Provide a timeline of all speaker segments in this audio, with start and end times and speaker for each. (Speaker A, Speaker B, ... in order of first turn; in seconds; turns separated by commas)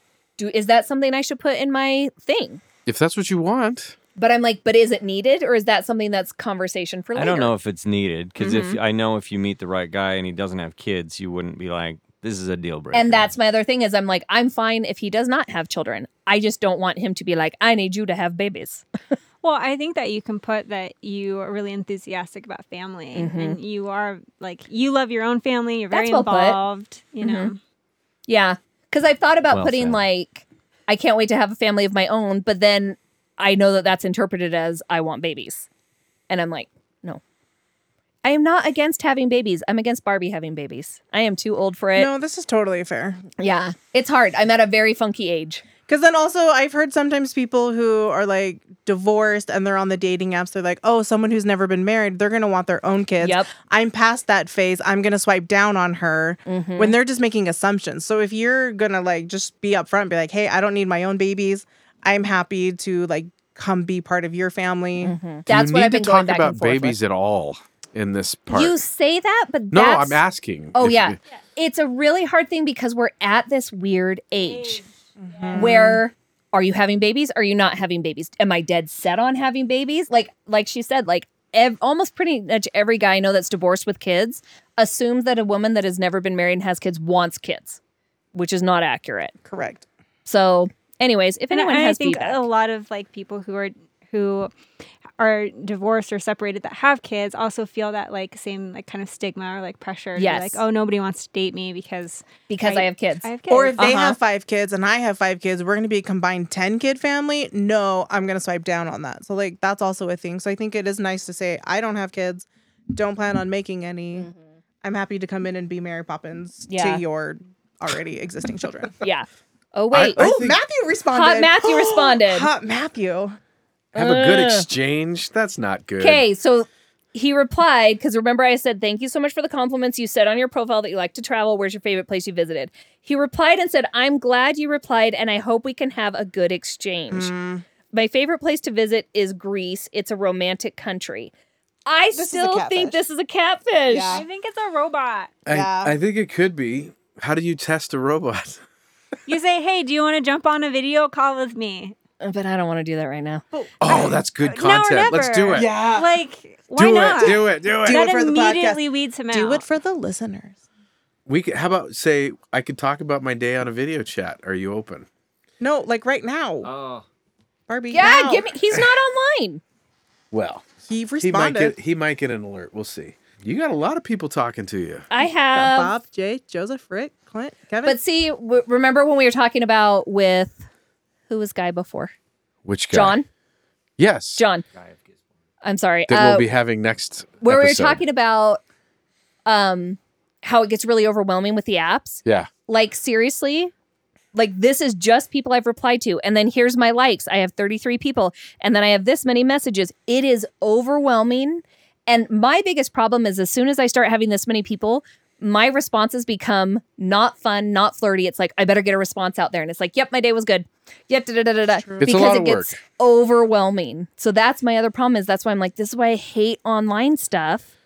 Speaker A: 0.4-2.6, Speaker B: 2.9-3.9, Speaker A: 4.2-7.5, Speaker C: 7.2-13.3, Speaker A: 8.4-8.8, Speaker A: 12.9-18.9, Speaker D: 19.4-27.6, Speaker A: 23.1-23.6, Speaker A: 25.9-26.6, Speaker A: 27.2-27.5, Speaker A: 28.3-35.7, Speaker C: 29.5-30.0, Speaker A: 36.3-37.2, Speaker A: 38.2-42.1, Speaker E: 42.0-43.2, Speaker A: 43.4-45.6, Speaker E: 45.9-65.1, Speaker A: 53.2-53.5, Speaker A: 56.5-57.0, Speaker A: 65.0-67.0, Speaker B: 65.5-68.8, Speaker A: 68.5-70.2, Speaker B: 69.7-71.2, Speaker A: 70.7-74.8, Speaker D: 74.4-76.0, Speaker E: 75.2-76.0, Speaker A: 75.5-87.8, Speaker A: 88.3-89.3, Speaker E: 89.5-89.8, Speaker A: 90.2-92.4, Speaker D: 91.5-94.5, Speaker D: 95.2-104.0, Speaker A: 100.1-100.6, Speaker A: 102.5-104.2, Speaker E: 103.5-114.3, Speaker E: 114.8-119.0, Speaker A: 116.7-117.0, Speaker A: 119.0-120.3, Speaker B: 119.9-120.6, Speaker E: 120.2-123.4, Speaker A: 121.1-122.5, Speaker A: 123.9-124.7, Speaker B: 123.9-126.2, Speaker A: 126.0-137.3, Speaker E: 137.1-137.6, Speaker A: 137.9-141.3, Speaker A: 141.8-144.2, Speaker E: 142.1-143.0, Speaker E: 143.9-144.2, Speaker D: 144.0-145.4, Speaker B: 145.4-148.6, Speaker E: 145.5-145.9, Speaker D: 149.3-151.9, Speaker A: 152.2-153.4, Speaker E: 153.5-154.1, Speaker B: 153.8-155.7, Speaker D: 153.9-159.6, Speaker E: 155.5-156.1, Speaker B: 156.8-158.1, Speaker E: 156.9-160.6, Speaker B: 161.2-165.1, Speaker E: 165.6-166.7, Speaker C: 166.6-167.0, Speaker E: 167.7-168.5, Speaker A: 167.9-169.6, Speaker B: 170.3-175.1, Speaker E: 170.8-171.7, Speaker A: 175.1-175.9, Speaker E: 175.5-178.0, Speaker A: 177.8-180.7, Speaker A: 181.3-182.1, Speaker B: 182.6-183.2, Speaker A: 182.9-183.2, Speaker B: 184.0-184.4, Speaker A: 184.3-184.6, Speaker A: 185.6-186.5, Speaker B: 186.1-188.0, Speaker A: 187.4-188.6, Speaker A: 189.4-193.7, Speaker B: 192.2-192.5, Speaker A: 194.3-217.7, Speaker E: 211.7-212.3, Speaker B: 212.0-212.8